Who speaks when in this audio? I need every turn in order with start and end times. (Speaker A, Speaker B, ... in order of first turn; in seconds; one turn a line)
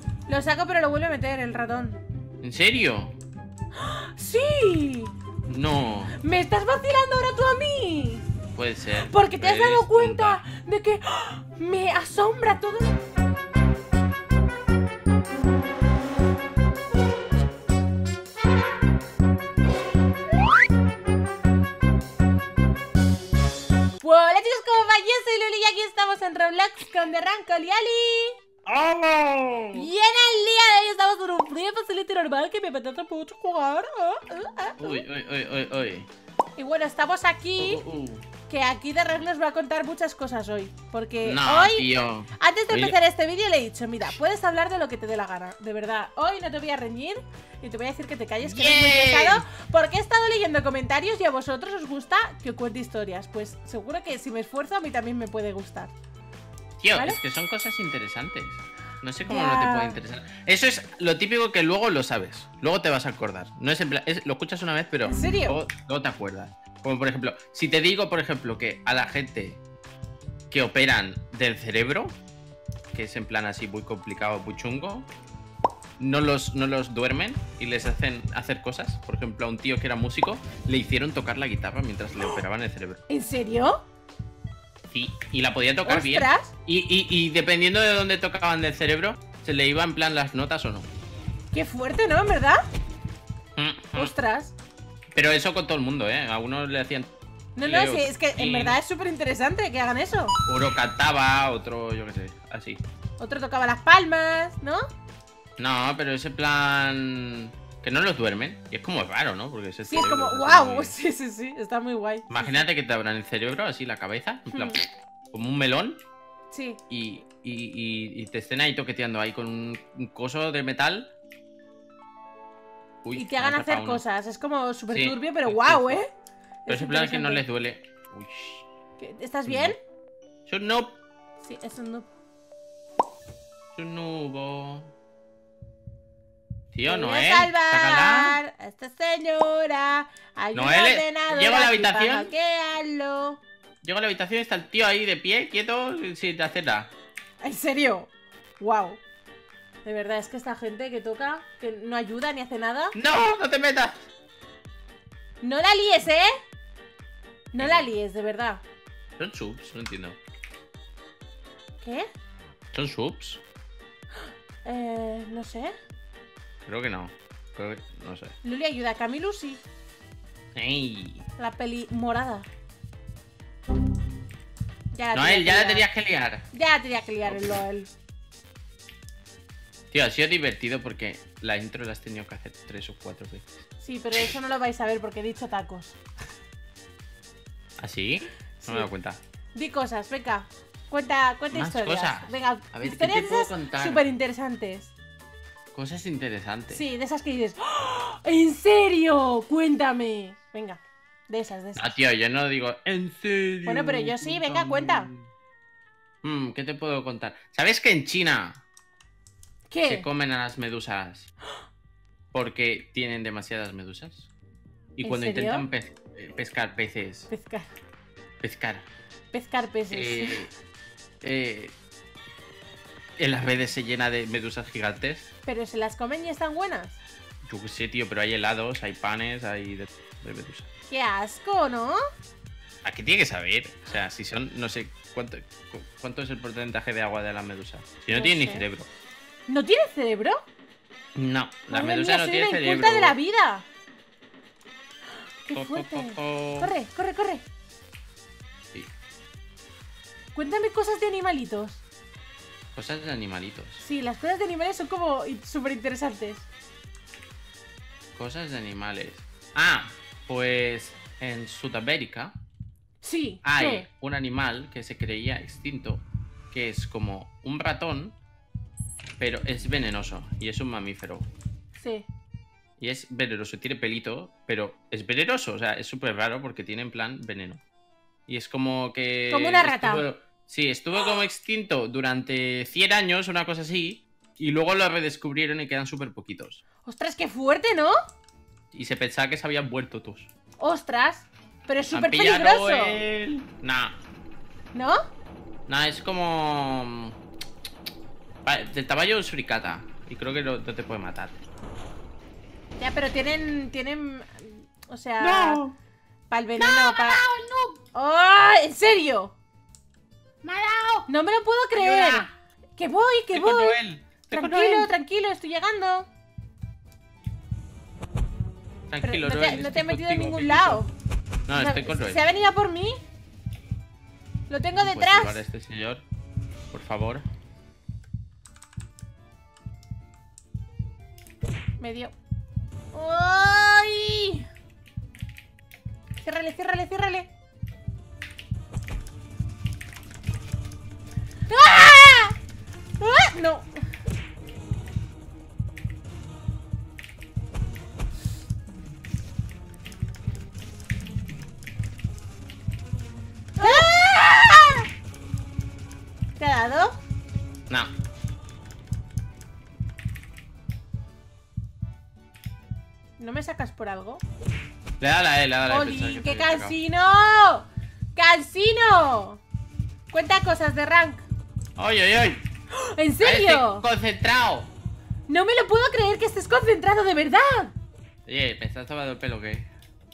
Speaker A: 0.3-2.0
Speaker B: 2.4-3.1
Speaker A: 3.8-5.1
Speaker B: 5.5-6.2
Speaker A: 6.2-8.2
Speaker B: 8.5-10.4
Speaker A: 9.1-12.9
Speaker A: 24.0-28.4
Speaker B: 28.6-29.9
Speaker A: 29.7-35.0
Speaker B: 34.8-36.1
Speaker A: 36.6-37.8
Speaker B: 37.6-38.2
Speaker A: 38.5-55.9
Speaker B: 41.2-43.0
Speaker B: 48.4-49.5
Speaker B: 56.8-69.6
Speaker A: 56.9-57.2
Speaker A: 59.2-60.0
Speaker A: 65.0-65.6
Speaker B: 70.5-72.2
Speaker B: 72.9-75.1
Speaker B: 76.0-83.0
Speaker A: 83.1-83.8
Speaker B: 84.9-90.9
Speaker A: 85.8-86.5
Speaker A: 91.5-92.6
Speaker B: 93.5-94.1
Speaker A: 93.9-94.5
Speaker B: 95.1-98.8
Speaker A: 97.5-100.3
Speaker B: 100.5-102.8
Speaker A: 103.2-104.8
Speaker B: 105.6-111.0
Speaker A: 109.8-112.6
Speaker B: 112.3-116.0
Speaker A: 114.5-114.8
Speaker A: 116.5-116.8
Speaker B: 116.9-121.1
Speaker B: 123.0-124.0
Speaker A: 123.1-126.1
Speaker B: 124.9-126.0
Speaker A: 126.7-127.4
Speaker B: 126.7-128.7
Speaker A: 129.0-129.8
Speaker B: 129.5-129.7
Speaker B: 130.4-131.0
Speaker A: 131.4-132.1
Speaker B: 133.7-134.9
Speaker B: 136.7-138.4
Speaker A: 136.8-143.4
Speaker B: 140.5-142.3
Speaker B: 143.8-146.9
Speaker A: 147.4-149.0
Speaker A: 149.8-152.9
Speaker B: 152.9-154.1
Speaker A: 155.4-156.3
Speaker A: 157.5-158.6
Speaker B: 157.6-157.9
Speaker B: 159.2-160.2
Speaker A: 161.8-162.1
Speaker B: 162.7-163.4
Speaker A: 164.6-165.7
Speaker B: 166.6-168.3
Speaker A: 168.4-169.6
Speaker B: 170.5-171.3
Speaker A: 171.4-172.5
Speaker A: 174.9-175.8
Speaker B: 175.1-176.4
Speaker A: 176.5-177.9
Speaker B: 177.2-177.6
Speaker B: 179.9-183.6
Speaker A: 183.8-185.9
Speaker B: 187.8-189.2
Speaker A: 188.6-188.9
Speaker A: 189.5-194.9
Speaker B: 191.5-194.0
Speaker B: 195.7-196.8
Speaker A: 196.7-201.8
Speaker B: 201.8-205.2
Speaker A: 203.7-205.1
Speaker B: 206.2-208.6
Speaker A: 209.7-210.1
Speaker B: 209.8-211.3
Speaker B: 212.3-214.3
Speaker B: 215.0-217.3
Speaker A: 215.0-215.7
Speaker A: 217.3-217.7
Speaker B: 218.4-218.8
Speaker A: 219.3-220.4
Speaker B: 219.9-220.5
Speaker B: 221.2-221.8
Speaker B: 223.2-225.3
Speaker A: 225.4-227.0
Speaker B: 227.4-230.7
Speaker A: 230.9-232.0
Speaker B: 232.8-238.9
Speaker A: 238.1-238.7
Speaker A: 239.5-240.4
Speaker B: 241.1-243.2
Speaker A: 241.7-243.7
Speaker A: 245.4-247.4
Speaker B: 245.5-246.7
Speaker A: 250.3-251.8
Speaker B: 252.7-253.8
Speaker A: 253.8-256.5
Speaker B: 258.1-262.4
Speaker A: 263.0-263.9
Speaker B: 263.4-268.2
Speaker B: 269.2-271.3
Speaker A: 271.8-272.1
Speaker B: 272.8-277.6
Speaker B: 278.3-286.6
Speaker A: 279.3-280.1
Speaker A: 286.9-287.9
Speaker B: 288.7-290.3
Speaker A: 290.6-293.0
Speaker B: 291.9-293.9
Speaker B: 295.7-297.1
Speaker B: 298.4-301.4
Speaker A: 302.8-305.6
Speaker B: 305.2-305.8
Speaker A: 306.3-307.2
Speaker B: 306.6-307.8
Speaker A: 307.9-309.3
Speaker B: 310.4-311.1
Speaker A: 311.1-316.1
Speaker B: 311.7-312.3
Speaker B: 313.3-314.9
Speaker B: 318.9-320.8
Speaker A: 319.0-320.9
Speaker B: 321.5-322.2
Speaker A: 321.5-323.0
Speaker A: 324.5-325.4
Speaker B: 324.8-326.0
Speaker B: 326.7-327.3
Speaker A: 331.8-332.1
Speaker A: 332.9-334.4
Speaker A: 336.2-337.3
Speaker A: 341.5-342.3
Speaker A: 343.0-343.7
Speaker A: 353.6-354.8
Speaker A: 356.4-356.9
Speaker A: 363.2-364.2
Speaker B: 365.0-366.7
Speaker A: 365.7-369.4
Speaker A: 370.1-371.2
Speaker B: 371.8-372.4
Speaker A: 372.7-373.9
Speaker B: 373.2-374.7
Speaker A: 375.3-377.7
Speaker B: 378.3-379.7